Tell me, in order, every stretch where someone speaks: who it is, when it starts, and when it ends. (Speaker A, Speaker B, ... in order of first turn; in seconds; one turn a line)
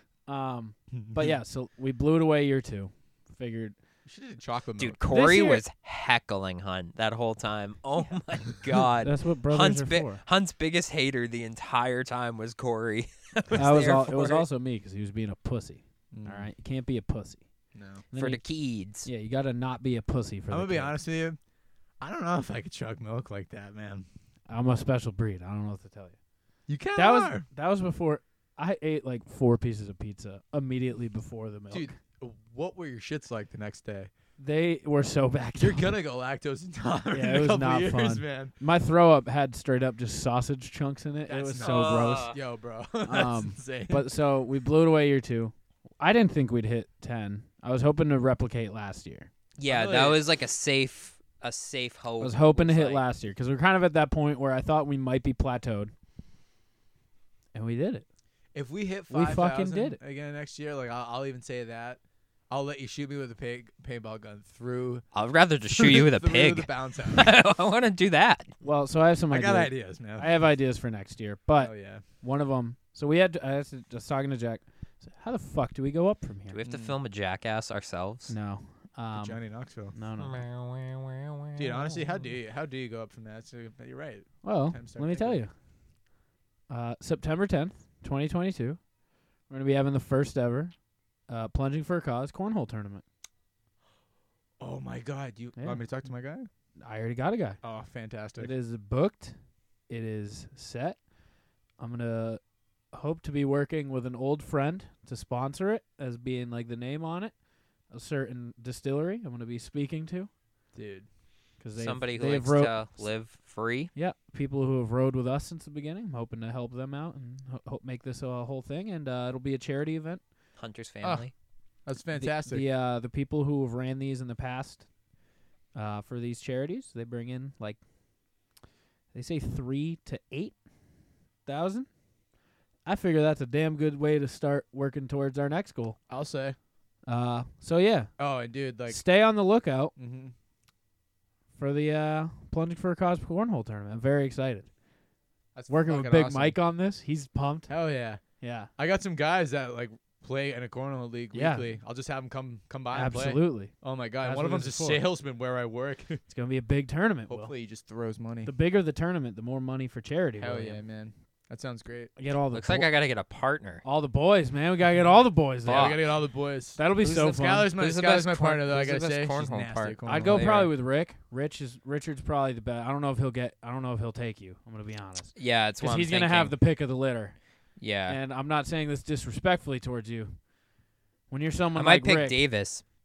Speaker A: 0.3-3.8
Speaker B: 0.9-1.3
Speaker B: 4.0-5.2
Speaker C: 4.8-14.5
Speaker A: 5.1-5.6
Speaker A: 9.0-10.2
Speaker A: 13.6-17.4
Speaker B: 16.1-16.5
Speaker B: 17.7-18.0
Speaker A: 18.1-18.4
Speaker C: 18.1-19.1
Speaker A: 19.0-21.0
Speaker B: 20.5-21.4
Speaker B: 22.0-24.1
Speaker A: 24.5-26.1
Speaker B: 26.7-27.4
Speaker A: 26.9-31.9
Speaker B: 31.7-34.1
Speaker A: 34.4-35.9
Speaker B: 35.5-38.5
Speaker A: 37.1-42.4
Speaker B: 41.3-44.1
Speaker C: 41.6-42.4
Speaker A: 43.0-49.3
Speaker C: 49.6-53.0
Speaker B: 49.6-50.2
Speaker A: 52.2-55.9
Speaker A: 57.5-58.0
Speaker B: 58.5-65.0
Speaker A: 59.1-60.0
Speaker C: 65.1-68.5
Speaker B: 65.7-67.3
Speaker A: 68.6-76.6
Speaker B: 69.3-70.3
Speaker B: 71.6-72.0
Speaker C: 76.5-78.3
Speaker B: 76.6-77.0
Speaker A: 78.3-80.4
Speaker B: 79.1-79.9
Speaker C: 80.2-82.0
Speaker B: 81.6-85.4
Speaker A: 84.4-85.5
Speaker A: 86.7-88.8
Speaker A: 89.5-90.7
Speaker A: 91.3-93.0
Speaker B: 94.6-96.5
Speaker A: 95.6-95.8
Speaker A: 96.8-97.6
Speaker B: 97.6-98.5
Speaker A: 98.4-99.3
Speaker A: 99.9-101.0
Speaker A: 101.8-102.4
Speaker A: 102.9-107.3
Speaker A: 107.9-110.3
Speaker B: 110.7-111.1
Speaker A: 111.6-113.0
Speaker C: 111.8-113.9
Speaker A: 113.9-120.2
Speaker C: 120.6-121.3
Speaker B: 121.0-121.3
Speaker B: 121.8-122.7
Speaker A: 122.1-124.9
Speaker A: 125.7-127.8
Speaker A: 129.1-130.6
Speaker A: 131.4-131.9
Speaker A: 132.8-136.0
Speaker B: 136.1-136.6
Speaker A: 137.1-138.1
Speaker B: 138.2-139.0
Speaker A: 138.9-139.9
Speaker B: 139.9-140.3
Speaker A: 141.6-144.7
Speaker B: 145.5-146.6
Speaker A: 145.7-147.7
Speaker B: 147.7-148.2
Speaker A: 148.4-148.7
Speaker B: 148.8-156.2
Speaker A: 151.3-151.7
Speaker A: 152.9-155.1
Speaker A: 156.3-157.5
Speaker B: 157.3-158.5
Speaker A: 158.4-160.8
Speaker B: 160.4-162.1
Speaker A: 162.2-162.9
Speaker C: 162.5-163.8
Speaker A: 163.8-166.0
Speaker C: 165.7-166.0
Speaker B: 165.7-170.5
Speaker A: 166.8-167.7
Speaker C: 167.8-170.7
Speaker A: 170.1-177.4
Speaker C: 175.3-176.5
Speaker C: 177.8-178.2
Speaker A: 178.1-180.4
Speaker A: 181.3-182.4
Speaker C: 181.7-182.8